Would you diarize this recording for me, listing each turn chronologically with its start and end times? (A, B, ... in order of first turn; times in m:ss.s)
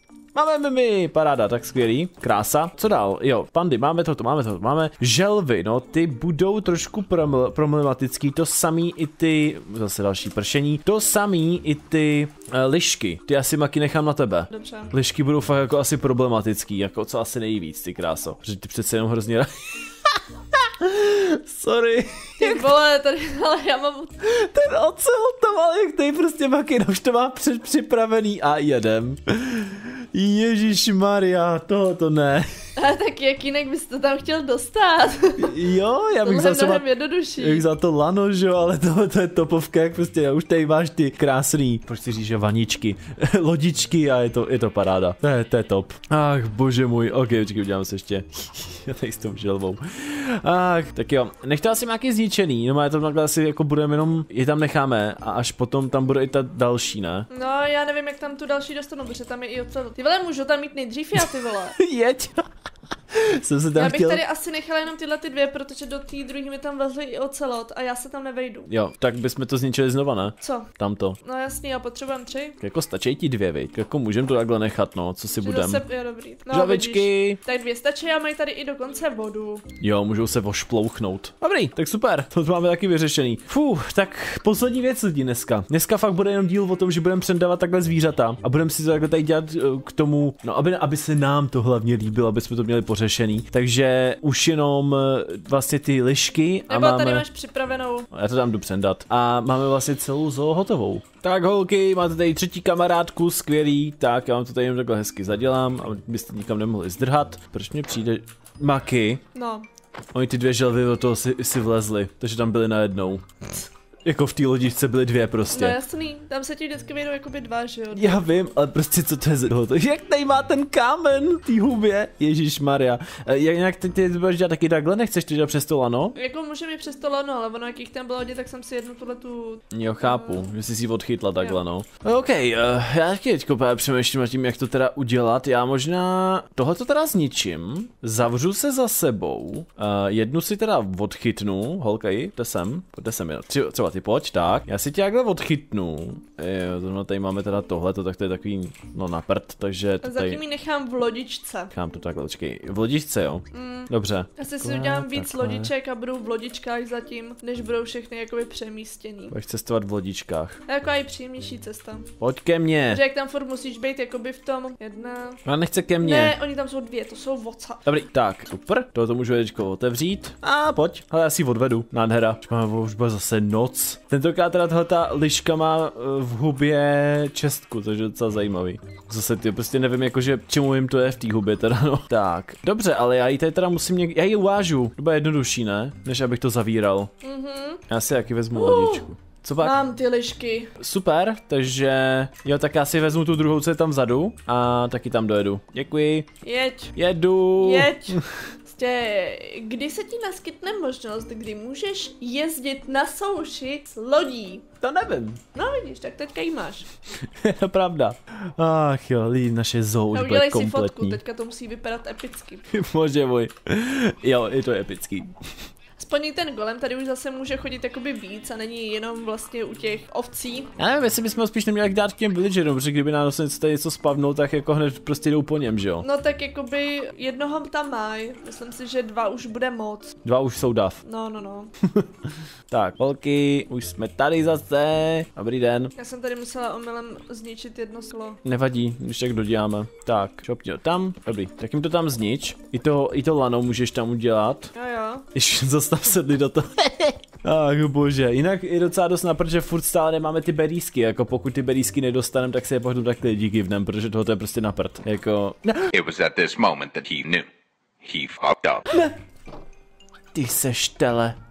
0:00.3-0:22.7 A
0:14.5-0:14.9 B
0:22.4-0:24.2 B
0:24.2-0:32.5 A
0:32.8-0:35.6 B
0:35.4-0:57.3 A
0:36.2-0:37.6 B
0:57.3-1:01.8 B
1:01.2-1:02.5 A
1:03.1-1:04.2 A
1:03.7-1:08.7 B
1:08.7-1:11.2 A
1:10.4-1:10.7 B
1:11.2-1:12.6 B
1:12.6-1:15.8 A
1:15.3-1:19.6 B
1:16.5-1:17.4 A
1:19.8-1:37.2 A
1:36.7-1:38.1 B
1:38.1-1:49.2 A
1:49.3-1:49.7 B
1:50.1-1:53.3 A
1:54.0-1:55.8 A
1:55.5-1:58.2 B
1:57.9-2:06.2 A
2:06.1-2:10.5 B
2:09.7-2:30.4 A
2:30.0-2:31.7 B
2:31.7-2:35.7 A
2:33.5-2:39.3 B
2:39.3-2:40.6 A
2:40.7-2:42.1 B
2:42.2-2:43.0 A
2:42.9-2:45.4 B
2:45.4-2:46.4 A
2:46.0-2:47.8 B
2:47.8-3:07.1 A
3:07.2-3:07.8 B
3:07.9-3:09.8 A
3:08.5-3:09.1 B
3:09.6-3:10.7 B
3:10.8-3:16.3 A
3:16.4-3:17.0 B
3:16.9-3:18.4 A
3:17.6-3:24.6 B
3:24.8-3:25.4 A
3:25.5-3:26.8 B
3:27.3-3:31.2 A
3:30.1-3:32.7 B
3:32.7-3:35.3 A
3:36.0-3:40.7 B
3:40.8-3:46.0 A
3:46.0-3:50.2 B
3:50.2-3:51.0 A
3:51.0-3:51.7 B
3:51.8-3:55.9 A
3:56.0-3:58.4 B
3:58.4-4:04.7 A
4:04.7-4:05.3 B
4:05.3-4:15.9 A
4:15.9-4:17.5 C
4:18.0-4:18.9 C
4:18.9-4:19.2 A
4:20.3-4:21.4 A